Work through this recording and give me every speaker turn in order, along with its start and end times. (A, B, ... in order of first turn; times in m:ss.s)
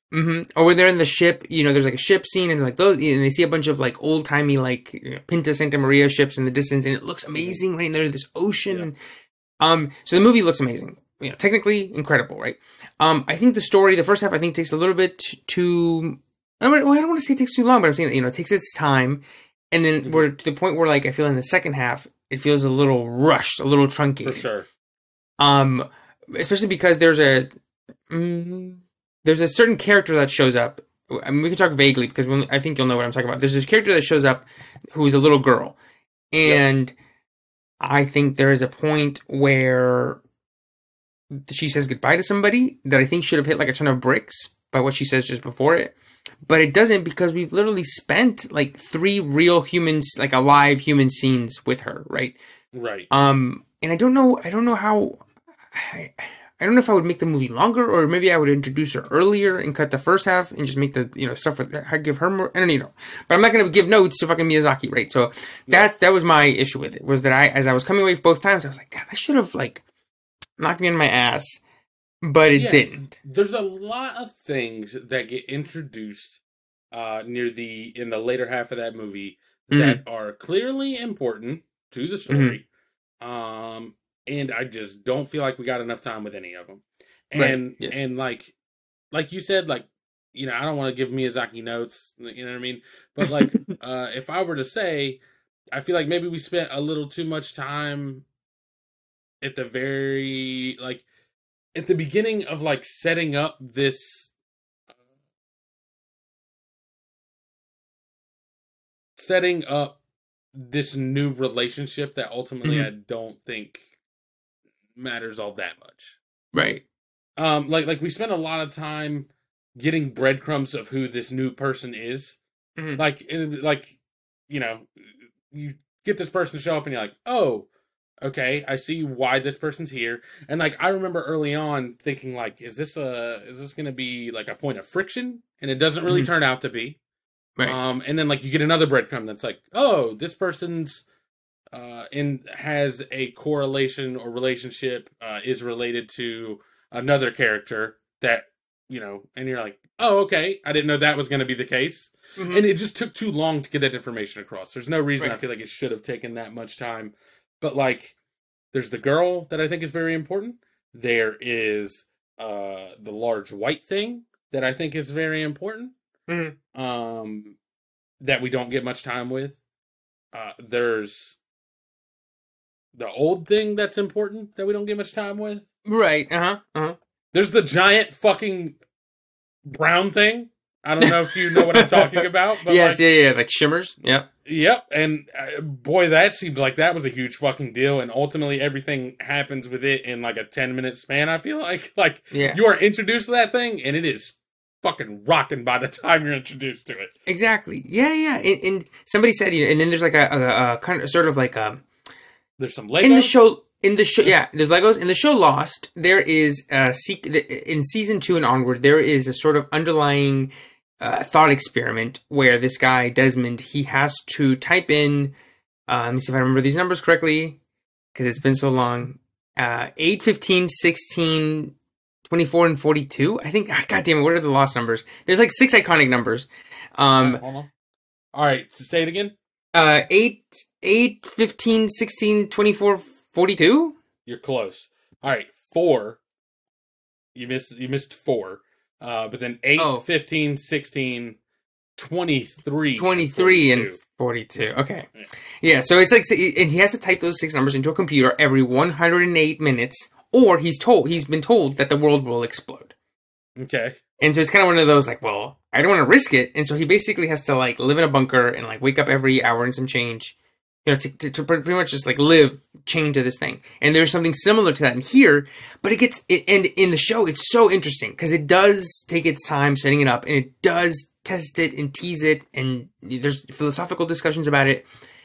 0:00.1-0:09.0 A
0:09.6-0:24.4 A
0:24.2-0:24.7 B
0:25.4-0:27.5 A
0:28.1-0:35.8 A
0:36.3-0:36.9 A
0:37.8-0:40.2 A
0:41.5-0:52.4 A
0:52.7-0:53.1 B
0:53.1-1:09.8 A
1:10.6-1:11.6 A
1:12.2-1:13.1 A
1:12.6-1:16.4 B
1:16.9-1:22.6 B
1:19.7-1:20.0 A
1:22.3-1:22.6 A
1:23.2-1:28.5 B
1:27.4-1:28.0 A
1:29.1-1:35.2 B
1:35.7-1:38.2 B
1:39.4-1:41.0 B
1:41.8-1:44.3 B
1:49.2-1:50.0 B
1:50.6-1:53.9 B
1:52.6-1:52.9 A
1:55.0-1:56.2 B
1:56.5-1:56.8 A
1:57.4-2:02.4 B
2:02.8-2:03.0 A
2:03.0-2:04.0 B
2:04.5-2:05.0 B
2:05.5-2:07.7 B
2:08.2-2:17.0 B
2:17.6-2:21.0 B
2:21.7-2:38.2 B
2:32.4-2:32.7 A
2:38.7-2:45.9 B
2:46.3-2:46.6 A
2:46.7-2:47.6 B
2:48.2-2:49.6 B
2:50.3-2:51.4 B
2:53.0-2:55.6 B
2:55.8-2:57.0 A
2:57.3-2:58.8 B
2:59.7-3:03.0 B
3:01.0-3:04.3 A
3:04.4-3:17.1 B
3:12.3-3:12.6 A
3:17.3-3:21.8 A
3:22.6-3:23.4 B
3:23.0-3:35.3 A
3:35.9-3:37.6 A
3:38.1-3:41.8 A
3:42.3-3:47.4 A
3:47.2-3:47.7 B
3:48.3-3:49.4 B
3:49.7-3:54.0 A
3:54.3-3:56.2 B
3:57.4-4:01.4 B
3:59.8-4:00.0 A
4:02.0-4:04.0 B
4:03.0-4:05.1 A
4:05.6-4:12.9 A
4:13.6-4:14.0 B
4:14.2-4:34.9 A